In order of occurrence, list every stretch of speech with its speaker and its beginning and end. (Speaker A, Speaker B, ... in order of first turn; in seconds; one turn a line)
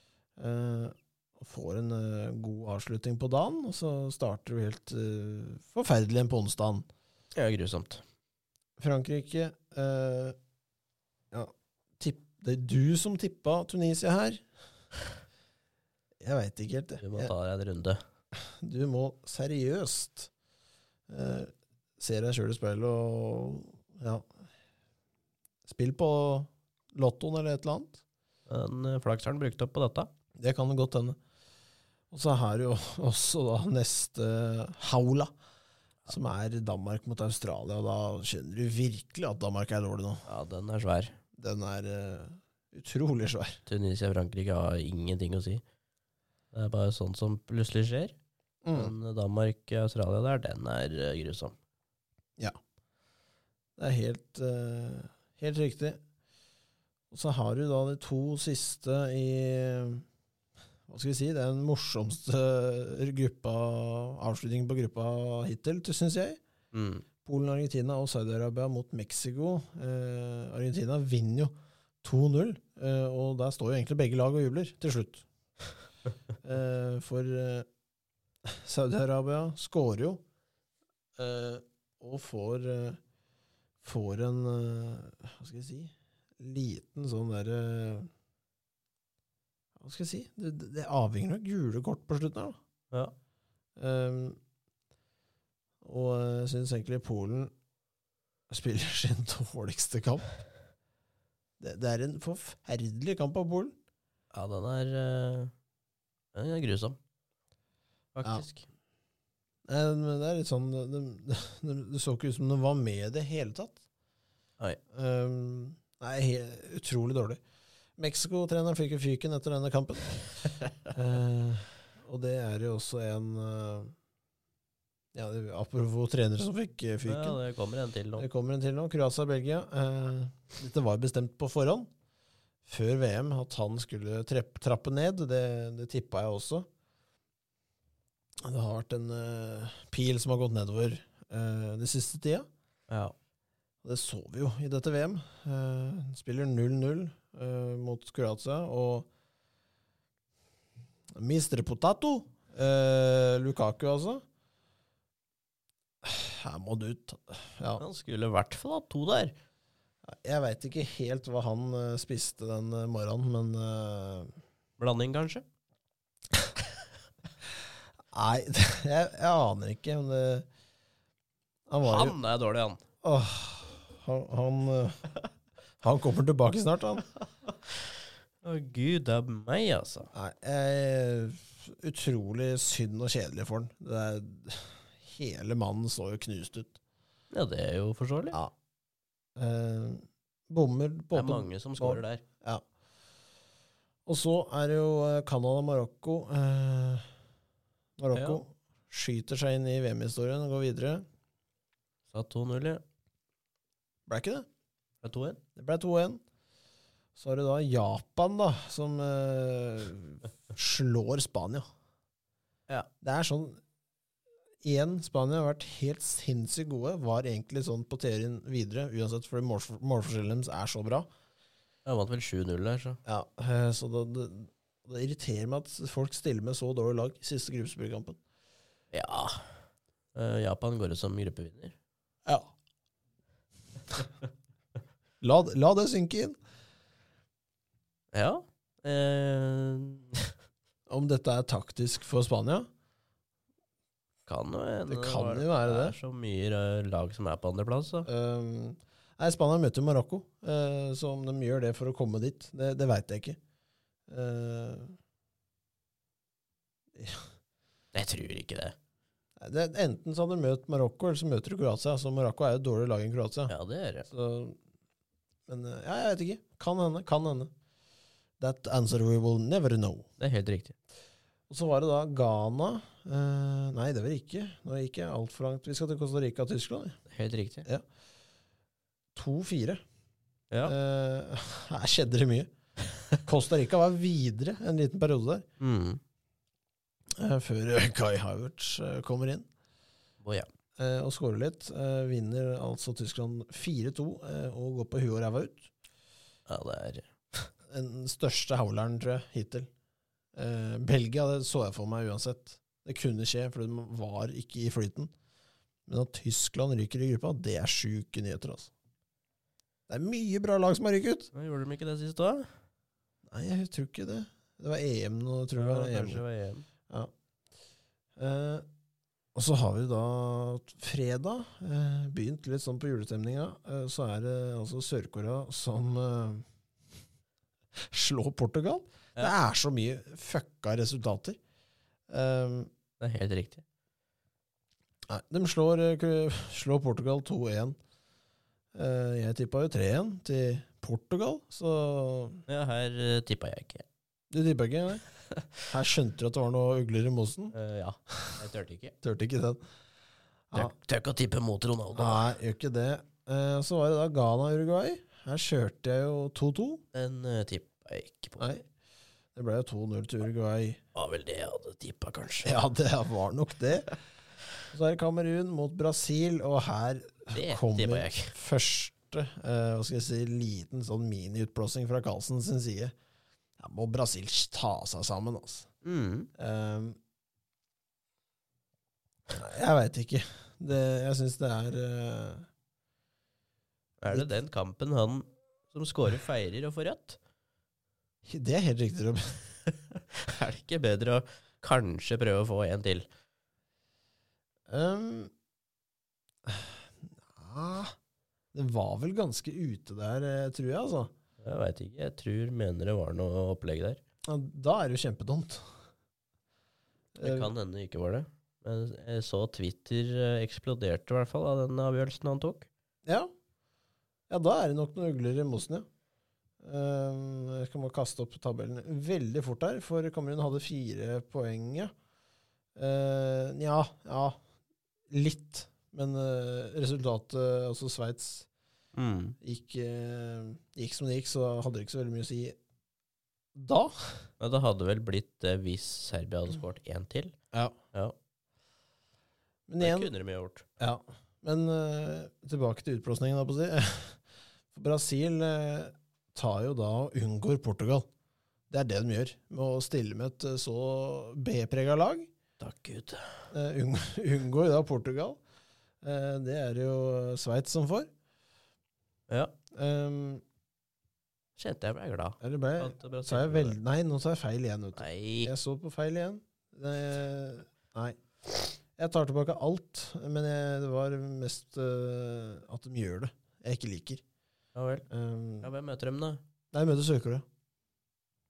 Speaker A: 0.4-6.9
Speaker B: 7.3-8.0
Speaker A: 8.8-10.4
Speaker A: 11.3-14.5
Speaker A: 16.2-17.3
Speaker B: 17.0-18.0
Speaker A: 18.3-20.3
Speaker A: 21.1-24.3
Speaker A: 25.7-28.0
Speaker B: 28.5-30.1
Speaker A: 30.4-31.2
Speaker A: 32.1-35.3
Speaker A: 36.1-40.2
Speaker B: 40.3-41.2
Speaker A: 41.4-43.6
Speaker B: 43.7-45.6
Speaker B: 46.5-48.1
Speaker A: 48.6-48.9
Speaker B: 48.7-51.6
Speaker A: 53.8-56.0
Speaker A: 57.1-60.0
Speaker A: 60.9-66.4
Speaker B: 66.7-67.0
Speaker A: 67.2-75.3
Speaker A: 76.4-77.7
Speaker A: 78.5-80.2
Speaker A: 81.2-83.0
Speaker A: 83.8-88.1
Speaker A: 89.8-92.6
Speaker A: 93.8-94.4
Speaker A: 95.8-97.5
Speaker A: 98.5-100.3
Speaker A: 101.6-103.8
Speaker B: 104.3-105.5
Speaker B: 106.3-107.0
Speaker B: 108.2-108.7
Speaker A: 109.7-113.8
Speaker A: 114.9-117.4
Speaker A: 118.0-120.3
Speaker A: 120.9-124.0
Speaker A: 125.1-127.4
Speaker B: 127.1-128.3
Speaker A: 128.2-131.9
Speaker A: 132.7-136.7
Speaker A: 138.4-142.5
Speaker B: 142.9-143.1
Speaker A: 143.8-149.1
Speaker A: 151.2-154.2
Speaker A: 156.0-157.8
Speaker B: 157.8-159.3
Speaker A: 160.1-164.3
Speaker B: 164.8-165.4
Speaker A: 168.1-170.5
Speaker A: 171.7-172.2
Speaker B: 171.8-172.8
Speaker A: 173.0-175.1
Speaker A: 175.8-177.1
Speaker B: 178.4-180.1
Speaker A: 180.1-186.8
Speaker B: 187.3-188.4
Speaker A: 189.4-192.6
Speaker B: 191.1-192.2
Speaker A: 194.1-197.1
Speaker A: 198.0-201.0
Speaker B: 198.1-198.4
Speaker B: 202.1-202.8
Speaker A: 204.1-204.5
Speaker B: 205.0-205.4
Speaker A: 205.6-206.2
Speaker A: 207.2-211.7
Speaker A: 213.0-213.6
Speaker A: 214.6-221.1
Speaker B: 221.8-223.0
Speaker A: 223.1-228.2
Speaker B: 228.9-229.6
Speaker B: 230.1-231.8
Speaker A: 232.2-232.5
Speaker A: 235.2-236.4
Speaker B: 238.1-240.3
Speaker A: 240.9-242.7
Speaker B: 244.3-248.1
Speaker A: 244.9-246.0
Speaker A: 248.1-253.4
Speaker A: 254.1-255.0
Speaker A: 256.9-257.3
Speaker B: 257.9-258.8
Speaker A: 259.4-263.5
Speaker B: 263.5-264.1
Speaker A: 264.1-264.6
Speaker A: 265.5-267.5
Speaker A: 268.4-270.1
Speaker B: 270.2-270.8
Speaker A: 271.5-277.0
Speaker B: 277.1-277.7
Speaker A: 279.1-279.8
Speaker A: 280.6-282.5
Speaker A: 283.2-285.4
Speaker B: 285.6-286.0
Speaker A: 287.2-289.5
Speaker B: 290.2-290.5
Speaker A: 290.8-295.7
Speaker B: 296.5-297.5
Speaker A: 297.7-299.7
Speaker A: 300.4-305.1
Speaker A: 305.9-308.7
Speaker A: 309.9-311.3
Speaker B: 311.3-312.5
Speaker A: 313.3-316.2
Speaker B: 315.6-316.6
Speaker A: 318.2-318.7
Speaker A: 319.4-326.4
Speaker A: 327.8-331.4
Speaker A: 332.1-332.7
Speaker B: 333.0-333.6
Speaker A: 335.1-337.8
Speaker A: 338.7-342.4
Speaker B: 342.5-343.9
Speaker A: 344.3-345.0
Speaker B: 345.3-345.6
Speaker A: 345.7-347.5
Speaker B: 347.5-348.9
Speaker A: 349.0-349.6
Speaker B: 350.5-352.3
Speaker A: 351.9-356.8
Speaker B: 356.9-358.4
Speaker A: 358.4-358.6
Speaker A: 359.4-360.8
Speaker B: 360.9-362.5
Speaker A: 362.4-363.9
Speaker A: 364.7-372.9
Speaker B: 367.3-368.3
Speaker A: 373.6-375.7
Speaker B: 375.8-376.3
Speaker A: 376.4-377.0
Speaker A: 379.3-382.5
Speaker B: 384.0-387.2
Speaker A: 388.2-389.6
Speaker B: 389.9-393.1
Speaker A: 394.7-395.3
Speaker A: 396.5-398.0
Speaker A: 398.5-401.1
Speaker B: 401.4-404.0
Speaker A: 404.3-405.7
Speaker A: 407.1-407.5
Speaker B: 407.2-412.7
Speaker A: 413.1-413.3
Speaker A: 414.3-415.9
Speaker A: 416.6-421.9
Speaker A: 422.8-424.4
Speaker A: 425.1-428.5
Speaker B: 428.9-429.4
Speaker A: 429.4-432.6
Speaker A: 433.6-434.3
Speaker B: 434.4-437.4
Speaker A: 439.7-440.1
Speaker B: 439.8-440.6
Speaker A: 440.8-444.2
Speaker A: 444.7-448.1
Speaker A: 448.7-452.3
Speaker B: 452.6-453.4
Speaker A: 453.5-455.4
Speaker A: 456.0-458.1
Speaker A: 459.7-460.4
Speaker B: 461.6-463.8
Speaker A: 462.4-474.2
Speaker B: 465.0-465.5
Speaker B: 474.8-475.1
Speaker A: 475.1-475.7
Speaker B: 475.6-476.4
Speaker A: 476.7-477.4